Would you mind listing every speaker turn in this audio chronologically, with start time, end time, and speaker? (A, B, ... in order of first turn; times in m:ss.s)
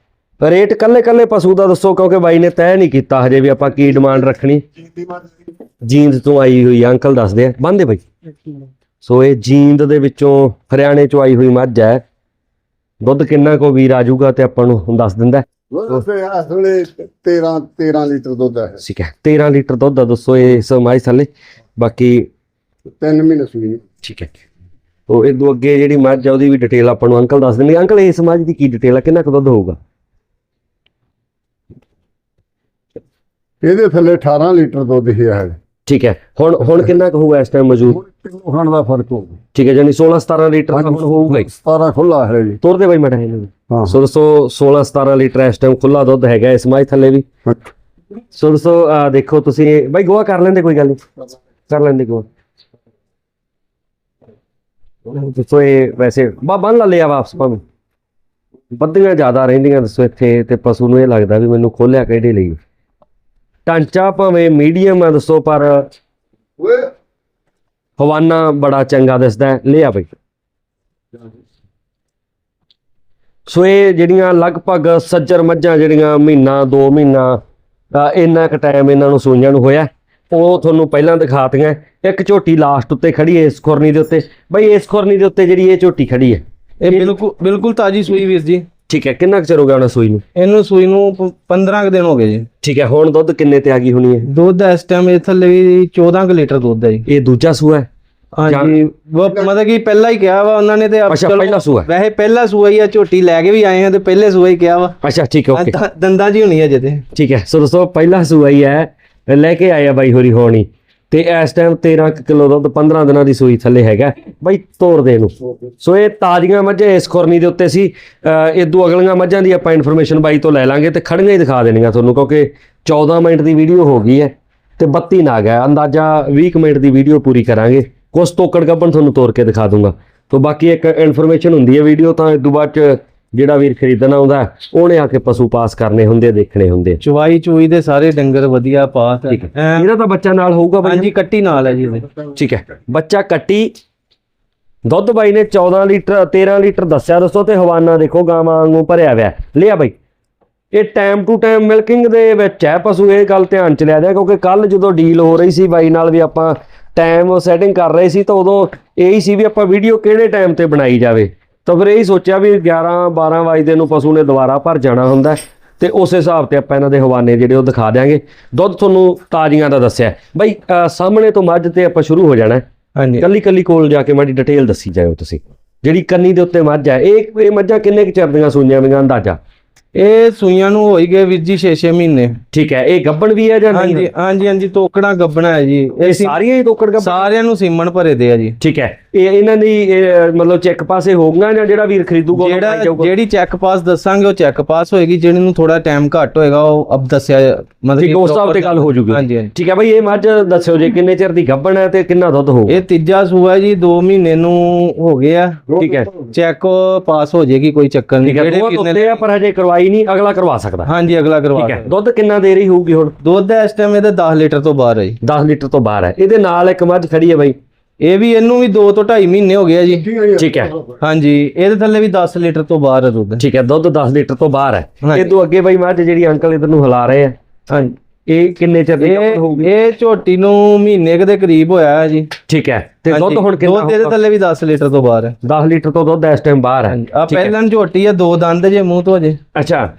0:00.4-0:04.6 A
0:04.8-0:05.3 B
0:05.8-0:08.0 A
0:09.0-0:12.0 A
0:13.0-0:16.0 A
0:15.7-0:18.8 B
0:18.8-0:22.3 A
0:23.0-0:23.8 B
0:24.0-0:24.3 A
0:25.1-0:29.8 A
0:33.6-0:35.6 B
0:35.8-0:38.0 A
0:37.9-0:39.4 B
0:39.5-0:41.5 A
0:40.7-0:42.6 B
0:42.6-0:47.2 A
0:43.7-0:44.0 B
0:48.3-0:51.0 A
0:51.7-0:52.2 A
0:55.1-0:57.6 A
0:58.7-1:02.6 A
1:03.6-1:05.9 A
1:06.6-1:06.9 B
1:08.0-1:10.1 A
1:13.5-1:17.4 A
1:17.9-1:27.1 A
1:26.8-1:28.6 C
1:28.9-1:30.2 A
1:30.4-1:32.5 C
1:32.6-1:34.3 A
1:34.2-1:37.0 C
1:37.1-1:37.9 A
1:38.4-1:45.0 C
1:38.5-1:38.7 A
1:41.1-1:41.9 A
1:45.0-1:45.8 A
1:45.5-1:47.0 C
1:47.1-2:17.0 A
2:17.0-2:19.9 C
2:19.3-2:21.1 A
2:20.8-2:22.1 C
2:22.3-2:23.7 A
2:24.8-2:29.9 A
2:30.7-2:52.6 A
2:53.0-2:53.2 C
2:53.2-2:59.4 A
2:59.9-3:02.4 C
3:02.5-3:04.1 A
3:03.7-3:06.4 C
3:06.0-3:07.3 A
3:07.0-3:08.6 C
3:08.6-3:13.1 A
3:12.3-3:19.5 C
3:18.0-3:22.8 A
3:22.7-3:29.2 C
3:25.8-3:26.1 A
3:28.2-3:30.9 A
3:30.8-3:31.9 C
3:31.6-3:33.1 A
3:33.2-3:35.2 C
3:35.2-3:37.6 A
3:38.0-3:40.1 C
3:40.0-3:41.0 B
3:40.4-3:40.7 A
3:41.0-3:43.4 C
3:43.4-3:47.4 A
3:45.0-3:45.3 C
3:47.7-3:48.0 C
3:48.3-3:49.7 A
3:49.0-3:52.3 C
3:52.5-3:54.1 A
3:53.1-3:55.4 C
3:55.4-3:57.5 A
3:56.9-3:59.4 C
3:59.5-3:59.9 A